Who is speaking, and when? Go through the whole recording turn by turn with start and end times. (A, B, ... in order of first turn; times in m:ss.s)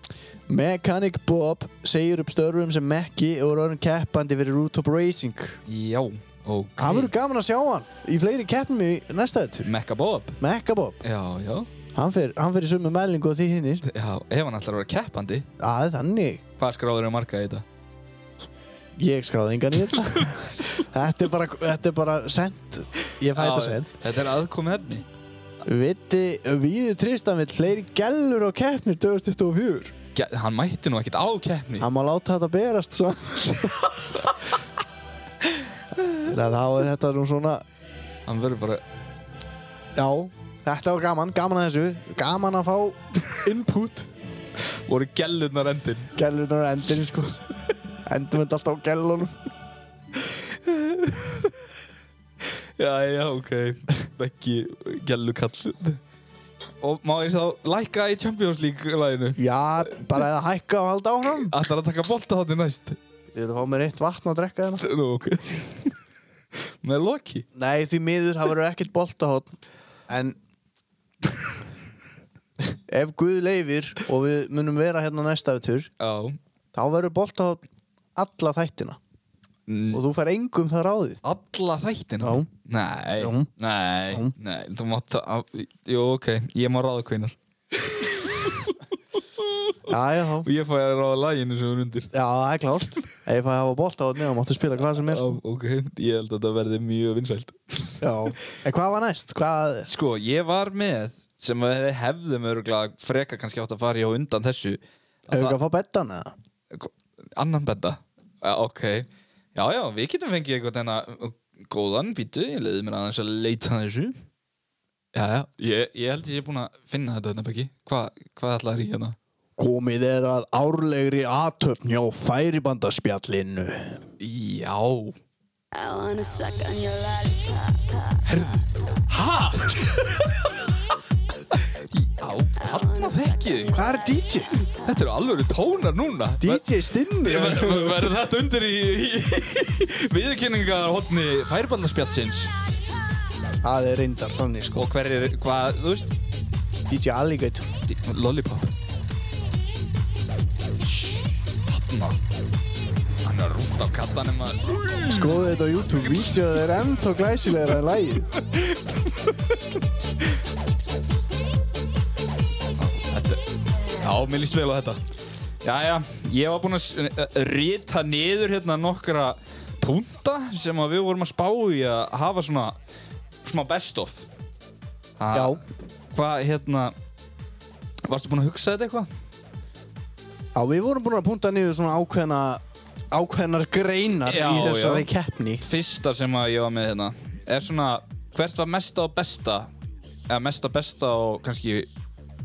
0:00.5-0:05.6 A
0:05.6-0:07.1 B
0:06.8-0:09.7 A
0:09.6-0:10.4 B
0:10.4-0:11.0 A
0:11.0-0:11.7 B
0:11.9-0:13.8 A
0:13.8-0:15.5 B
0:15.6-0:16.4 A
0:16.6-0:17.6 B
0:19.0-0:23.9 A
0:23.3-0:25.0 B
0:25.6-0:29.9 A
0:30.1-0:31.9 B
0:31.8-0:34.3 A
0:36.2-0:37.6 A
0:38.2-0:38.8 B
0:40.0-0:44.1 A
0:44.6-0:46.1 B
0:46.1-0:47.4 A
0:48.0-0:49.4 A
0:50.2-0:51.7 B
0:52.4-0:56.0 B
0:56.8-1:00.2 B
0:59.4-1:01.5 A
1:01.4-1:03.0 B
1:03.3-1:04.8 A
1:04.8-1:06.0 B
1:06.8-1:07.4 B
1:07.5-1:09.5 A
1:10.1-1:10.4 A
1:12.7-1:15.9 A
1:16.0-1:16.4 B
1:16.7-1:17.6 A
1:18.2-1:19.0 A
1:19.7-1:20.0 B
1:19.9-1:21.2 A
1:21.2-1:32.1 B
1:22.2-1:22.5 A
1:23.2-1:23.5 A
1:24.1-1:24.3 A
1:29.9-1:30.5 A
1:32.1-1:35.4 A
1:34.8-1:38.0 B
1:38.0-1:39.9 A
1:39.8-1:45.6 B
1:45.3-1:46.3 A
1:46.7-1:54.2 B
1:55.1-1:59.2 B
1:59.6-2:04.0 A
2:04.2-2:05.1 B
2:05.7-2:08.2 C
2:08.2-2:10.7 B
2:11.5-2:13.9 B
2:13.7-2:14.6 A
2:14.7-2:22.5 B
2:16.4-2:18.1 A
2:23.6-2:24.9 A
2:24.7-2:26.1 B
2:26.9-2:27.6 A
2:27.9-2:28.7 B
2:30.8-2:32.2 B
2:33.2-2:35.5 B
2:35.1-2:38.3 A
2:36.1-2:36.5 B
2:38.3-2:39.6 B
2:42.8-2:43.4 B
2:44.0-2:45.0 B
2:45.6-2:52.8 B
2:53.4-2:54.2 B
2:55.2-2:56.9 B
2:55.3-2:55.6 A
2:58.0-2:59.1 B
3:00.5-3:02.6 A
3:03.1-3:05.6 A
3:04.2-3:05.1 B
3:05.6-3:09.7 B
3:10.3-3:11.9 B